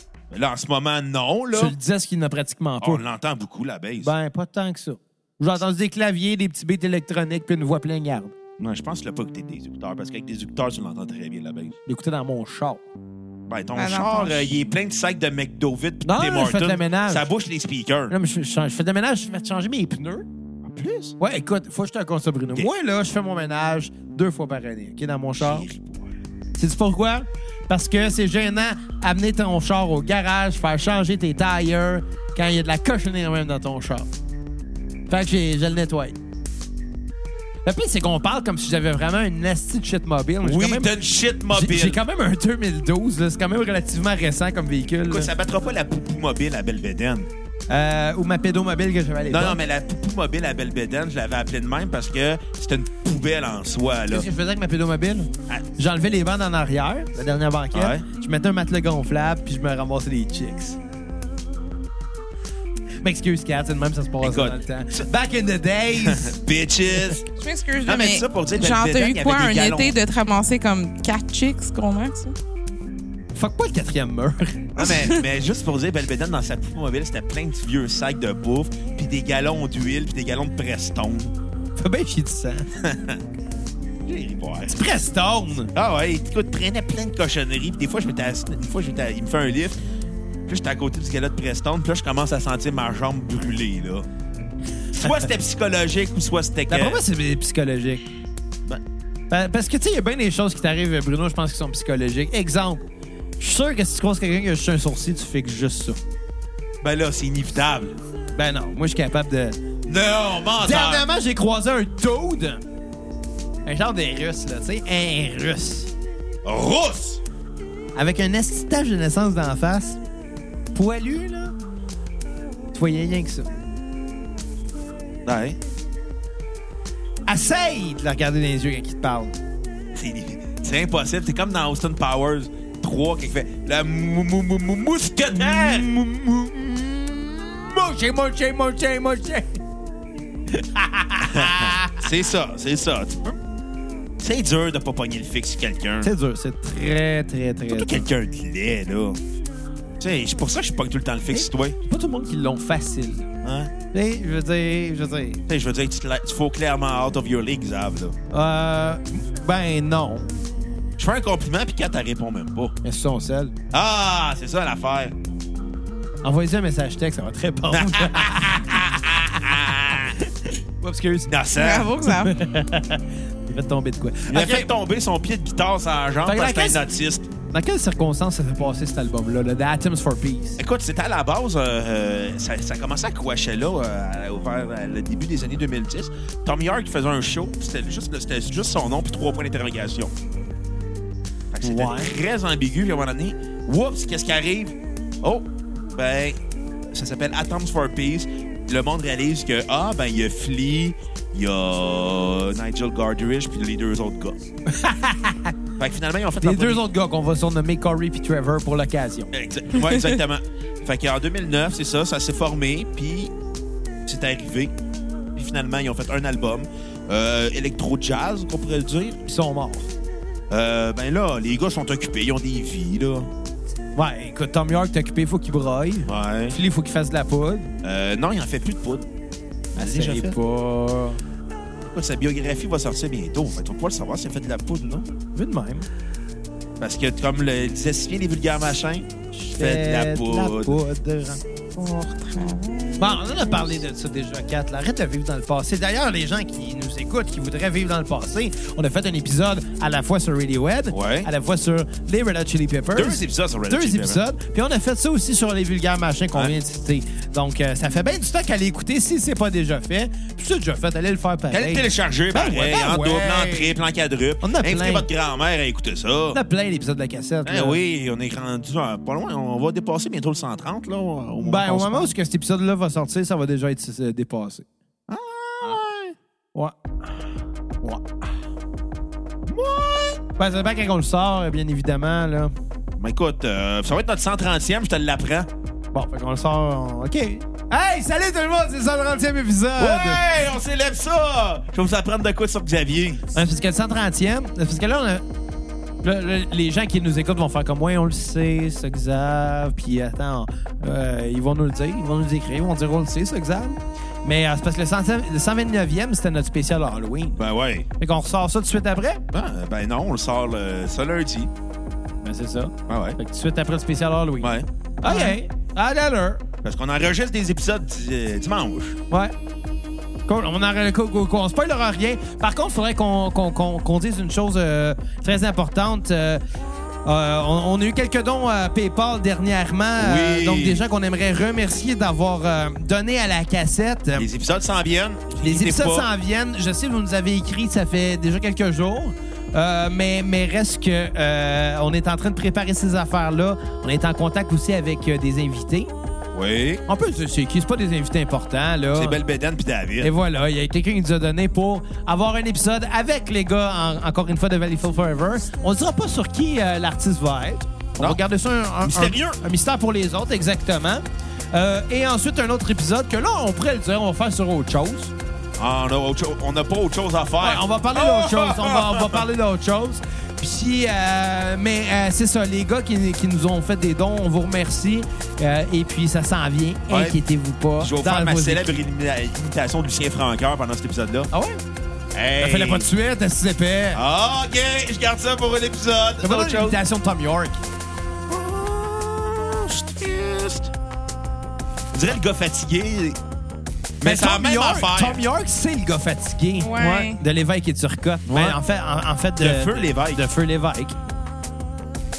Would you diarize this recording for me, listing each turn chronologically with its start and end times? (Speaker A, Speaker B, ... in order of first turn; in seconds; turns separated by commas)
Speaker A: 0.3-1.7, Speaker B: 1.5-3.0, Speaker A: 2.8-4.1, Speaker B: 4.0-8.3, Speaker A: 8.6-11.7, Speaker B: 11.8-12.8, Speaker A: 13.5-18.1, Speaker C: 13.7-14.5, Speaker B: 16.0-17.3, Speaker B: 18.1-20.3, Speaker A: 20.6-21.1, Speaker B: 21.2-25.6, Speaker A: 25.4-26.1, Speaker B: 26.6-34.1, Speaker B: 35.1-36.1, Speaker B: 37.6-40.9, Speaker A: 40.4-42.0, Speaker B: 41.5-45.3, Speaker A: 45.1-47.3, Speaker B: 47.7-49.6, Speaker A: 49.3-54.3, Speaker B: 54.1-60.8, Speaker A: 57.7-58.0, Speaker B: 63.0-66.3, Speaker A: 64.2-65.1, Speaker A: 66.0-67.2, Speaker C: 67.4-72.3, Speaker A: 67.8-70.0, Speaker B: 73.3-74.8, Speaker A: 74.7-81.3, Speaker C: 74.8-75.2, Speaker B: 81.8-82.7, Speaker A: 82.8-83.2, Speaker A: 84.0-84.9, Speaker B: 84.7-85.7, Speaker A: 85.7-89.8, Speaker A: 90.5-94.1, Speaker A: 94.9-97.0, Speaker B: 96.7-98.0, Speaker B: 99.3-102.8, Speaker B: 103.4-106.0, Speaker A: 106.8-108.0, Speaker B: 108.3-109.6, Speaker A: 109.8-111.0, Speaker B: 110.6-112.6, Speaker B: 113.6-115.9, Speaker A: 116.4-117.2, Speaker B: 117.9-120.0, Speaker B: 120.7-121.5, Speaker B: 122.7-123.6, Speaker A: 125.2-125.6, Speaker B: 127.3-129.3, Speaker A: 129.9-136.9, Speaker B: 135.4-135.9, Speaker B: 136.9-139.6, Speaker B: 140.5-142.0, Speaker A: 141.2-143.4, Speaker A: 144.2-146.1, Speaker B: 146.0-148.1, Speaker A: 147.7-149.2, Speaker A: 150.0-151.8, Speaker B: 151.3-153.3, Speaker A: 153.4-153.7, Speaker B: 153.9-155.4, Speaker A: 155.5-158.2, Speaker B: 158.3-160.3, Speaker A: 161.0-162.7, Speaker B: 162.8-163.5, Speaker A: 163.7-165.1, Speaker B: 166.2-168.8, Speaker A: 167.7-170.2, Speaker B: 170.8-171.3, Speaker A: 171.3-171.9, Speaker C: 171.6-172.3, Speaker B: 172.0-174.7, Speaker A: 174.3-177.3, Speaker B: 176.2-176.8, Speaker B: 177.5-180.6, Speaker A: 180.6-190.1, Speaker A: 191.5-196.4, Speaker B: 191.6-192.1, Speaker A: 196.9-204.4, Speaker B: 204.7-205.5, Speaker A: 205.8-206.8, Speaker B: 206.4-209.3, Speaker A: 209.3-213.3, Speaker A: 214.1-214.7, Speaker A: 215.3-219.2, Speaker B: 219.2-219.9, Speaker A: 220.5-223.3, Speaker B: 223.9-227.7, Speaker A: 226.1-226.6, Speaker A: 227.8-229.1, Speaker A: 229.7-230.4, Speaker B: 229.8-231.2, Speaker A: 231.8-235.1, Speaker B: 235.3-235.9, Speaker A: 236.8-240.8, Speaker B: 239.3-241.4, Speaker C: 241.8-243.8, Speaker B: 243.0-263.7, Speaker A: 250.9-251.3, Speaker A: 252.9-254.2, Speaker A: 261.5-266.4, Speaker B: 264.4-265.1, Speaker B: 266.3-267.8, Speaker A: 267.4-272.1, Speaker B: 271.4-274.7, Speaker A: 275.1-276.1, Speaker B: 276.5-277.2, Speaker B: 277.8-278.2, Speaker A: 279.5-280.2, Speaker B: 280.4-282.5, Speaker A: 283.0-285.5, Speaker B: 285.9-290.2, Speaker A: 289.8-293.2, Speaker B: 293.3-295.2, Speaker B: 296.0-307.4, Speaker A: 307.4-307.9, Speaker B: 308.0-309.2, Speaker A: 309.3-311.5, Speaker B: 312.2-316.4, Speaker A: 312.9-313.2, Speaker A: 314.4-314.7, Speaker C: 315.0-315.4, Speaker A: 316.6-319.0, Speaker B: 320.3-326.4, Speaker B: 327.1-334.3, Speaker A: 330.0-330.8, Speaker A: 334.1-336.1, Speaker B: 335.4-345.9, Speaker A: 346.3-346.8, Speaker B: 346.9-349.2, Speaker A: 348.9-350.1, Speaker B: 350.0-365.1, Speaker A: 358.8-359.4, Speaker A: 365.6-369.2, Speaker B: 367.4-378.8, Speaker A: 376.9-377.2, Speaker A: 377.8-381.3, Speaker B: 381.3-381.6, Speaker A: 382.1-382.9, Speaker B: 382.4-384.0, Speaker A: 383.9-386.8, Speaker B: 386.2-387.6, Speaker A: 388.3-390.7, Speaker A: 391.9-393.2, Speaker A: 394.0-395.2, Speaker B: 394.0-400.9, Speaker C: 396.6-397.2, Speaker A: 398.2-398.6, Speaker A: 399.4-400.2